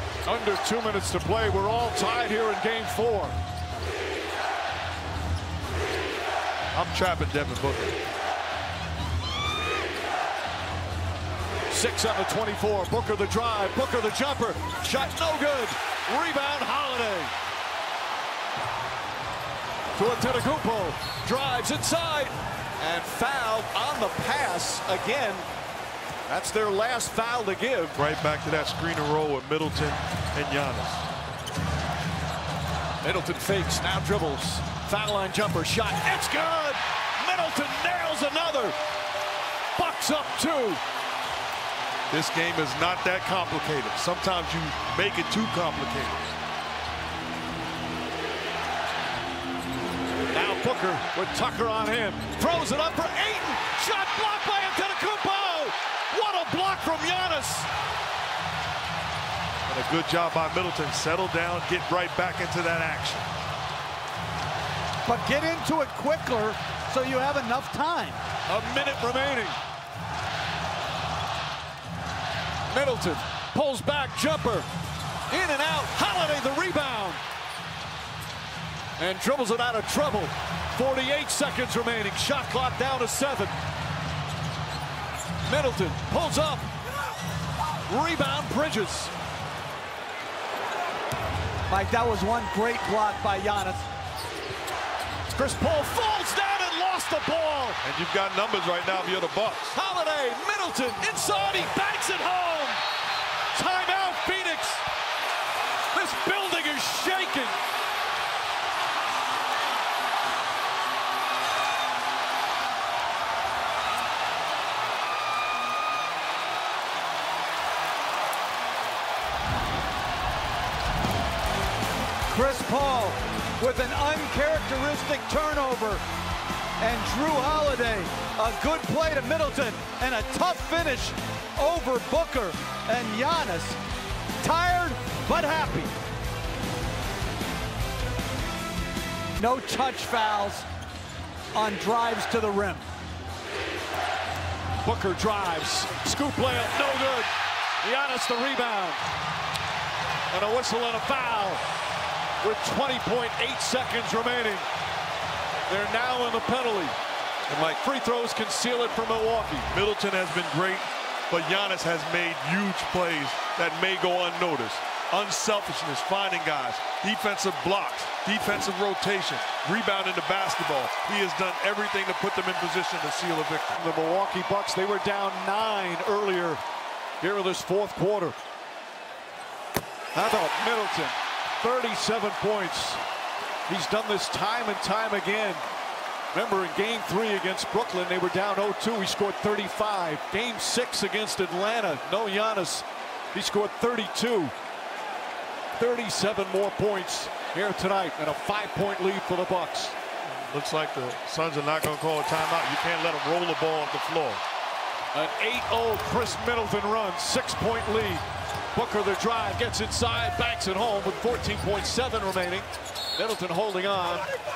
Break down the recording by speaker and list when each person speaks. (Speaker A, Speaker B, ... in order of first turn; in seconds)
Speaker A: 0.2-3.4, 11.7-17.3, 19.9-25.5, 26.3-28.0, 33.0-38.8, 39.8-40.8, 50.3-57.7, 68.5-69.6, 72.7-74.7, 75.3-77.2, 79.0-83.5, 85.5-86.7, 87.9-89.1, 95.3-97.8, 99.7-102.8, 103.5-104.8, 105.9-107.6, 144.8-147.3, 147.8-149.0, 150.3-151.6, 152.4-154.7, 155.7-157.0, 157.5-159.7, 173.8-176.6, 177.2-178.4, 180.1-183.0, 183.7-185.6, 186.3-194.5, 195.8-200.0, 205.1-214.3
Speaker B: 6.7-8.0, 28.0-31.1, 42.1-46.2, 59.7-63.3, 97.8-99.8, 159.7-173.8, 200.2-204.4
Speaker C: 65.0-68.2, 91.7-93.9, 122.3-126.0, 126.8-133.8, 134.4-135.9, 139.4-140.7, 141.5-142.9